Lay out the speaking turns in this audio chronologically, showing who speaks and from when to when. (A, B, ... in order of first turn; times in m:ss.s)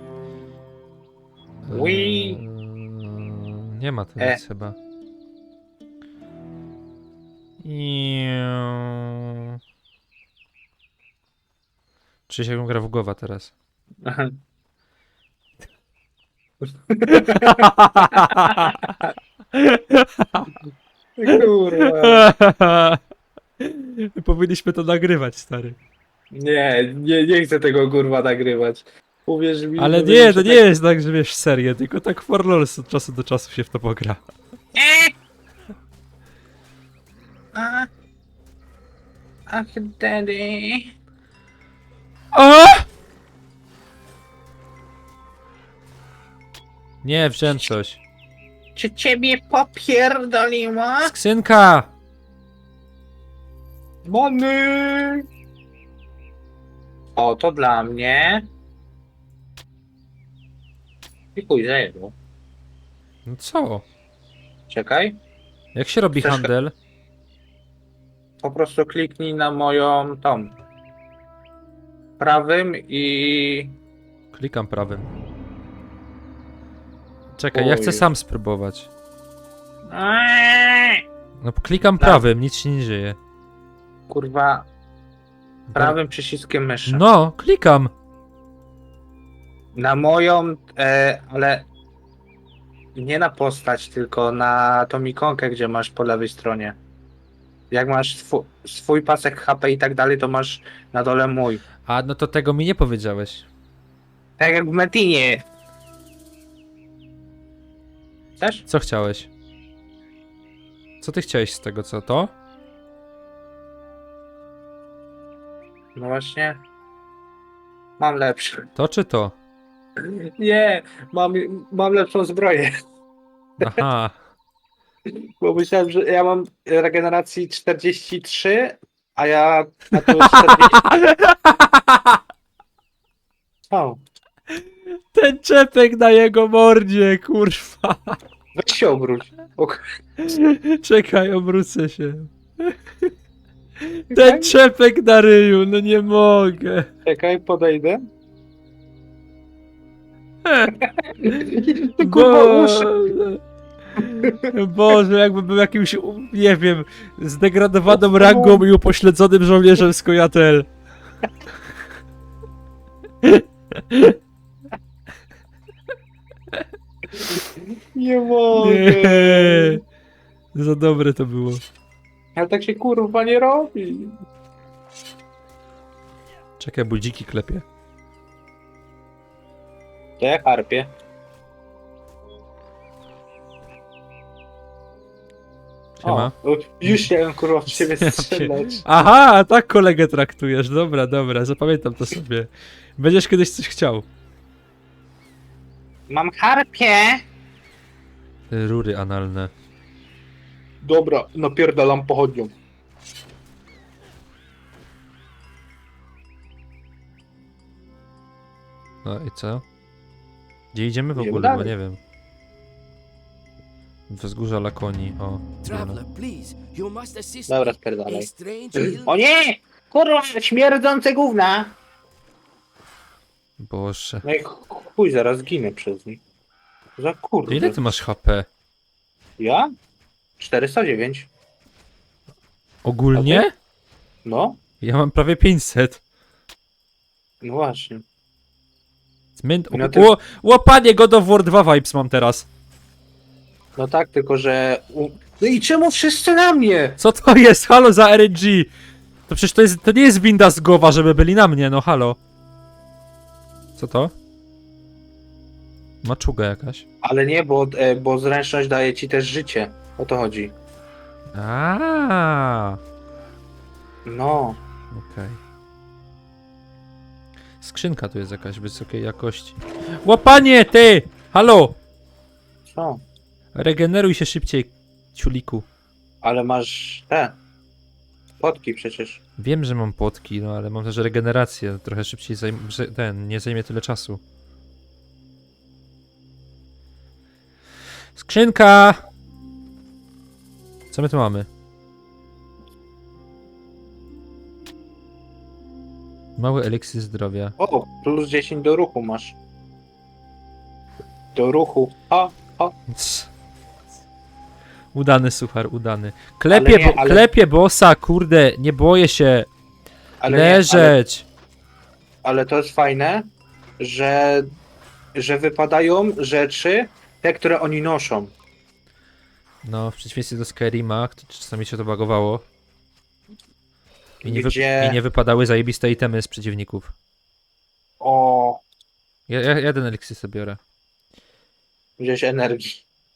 0:01.6-0:04.8 A
0:01.7-0:02.4 B
0:07.6-0:09.6 A
0:12.3-0:13.5 A
0:14.0-0:14.4 B
0:16.6-0:18.8 B
0:17.1-0:19.0 A
0:19.5-0:20.5 A
0:21.2-0:22.3 B
0:21.3-0:23.0 A
0:23.6-0:25.8 A
0:26.3-0:30.6 B
0:29.8-0:34.2 A
0:34.7-0:35.1 B
0:37.5-0:37.9 B
0:39.5-0:40.9 B
0:42.3-0:42.9 A
0:47.0-0:48.0 A
0:48.7-0:51.1 B
0:51.0-0:51.9 A
0:54.0-0:55.2 B
0:57.2-0:58.5 B
1:01.3-1:02.1 B
1:03.2-1:03.8 A
1:04.7-1:05.2 B
1:05.7-1:06.7 A
1:06.2-1:06.5 B
1:08.4-1:10.5 B
1:12.2-1:13.8 B
1:14.3-1:15.1 A
1:17.3-1:18.9 A
1:17.5-1:18.1 B
1:19.9-1:21.0 B
1:21.4-1:23.2 A
1:24.1-1:24.7 B
1:25.7-1:26.0 A
1:25.7-1:27.0 B
1:26.9-1:27.9 A
1:29.7-1:31.7 B
1:32.9-1:36.8 B
1:37.7-1:41.6 B
1:41.8-1:43.5 A
1:44.4-1:45.4 B
1:48.4-1:48.6 B
1:48.7-1:49.3 A
1:51.0-1:52.3 A
1:55.9-1:56.6 B
1:58.0-1:58.7 B
1:58.7-1:59.4 A
2:00.0-2:02.7 B
2:03.6-2:04.2 A
2:05.0-2:10.8 B
2:10.0-2:12.2 A
2:13.7-2:14.0 B
2:14.5-2:18.2 A
2:18.5-2:19.8 B
2:20.2-2:23.1 A
2:23.8-2:26.9 A
2:24.1-2:24.6 B
2:27.0-2:28.0 B
2:30.4-2:30.7 A
2:30.7-2:32.9 B
2:31.2-2:33.4 A
2:33.9-2:40.7 A
2:34.2-2:34.5 B
2:37.9-2:38.6 B
2:43.2-2:44.2 A
2:47.2-2:49.8 B
2:48.5-2:49.8 A
2:50.5-2:51.6 A
2:52.3-2:54.2 B
2:56.6-2:57.6 A
3:00.2-3:00.9 B
3:06.0-3:06.3 A
3:06.0-3:08.8 B
3:07.7-3:14.1 A
3:16.1-3:17.2 B
3:18.5-3:19.5 A
3:20.8-3:22.5 B
3:29.0-3:29.6 A
3:30.7-3:32.0 A
3:31.1-3:31.7 B
3:34.1-3:36.0 A
3:35.6-3:39.1 C
3:37.5-3:41.8 B
3:43.6-3:44.2 A
3:44.2-3:46.2 B
3:47.0-3:48.0 B
3:47.5-3:48.5 A
3:49.4-3:49.7 B
3:50.4-3:51.3 B
3:52.8-3:53.5 A
3:53.1-3:53.4 B
3:54.2-3:54.6 B
3:54.8-3:56.0 A
3:57.4-3:58.0 B
3:59.4-4:02.5 A
3:59.7-4:00.1 B
4:03.8-4:07.0 B
4:07.0-4:08.7 A
4:09.3-4:12.2 A
4:13.8-4:14.1 A
4:16.0-4:16.8 A
4:17.0-4:20.5 B
4:21.3-4:22.8 A
4:24.0-4:24.6 B
4:24.9-4:25.4 A
4:27.6-4:31.8 A
4:32.6-4:33.0 B
4:33.5-4:35.6 A
4:36.2-4:37.4 B
4:38.4-4:39.2 B
4:39.4-4:44.2 A
4:48.1-4:49.0 A
4:50.9-4:51.5 A
4:56.4-4:57.5 A
4:57.6-4:59.4 B
5:01.3-5:02.8 B
5:02.9-5:03.3 A
5:04.9-5:09.5 A
5:06.5-5:07.3 B
5:10.2-5:11.0 B
5:10.2-5:11.2 A
5:12.2-5:14.5 B
5:15.1-5:18.3 B
5:19.6-5:22.4 A
5:24.2-5:26.9 A
5:24.2-5:25.0 B
5:28.0-5:28.6 B
5:29.3-5:30.6 A
5:32.0-5:32.8 B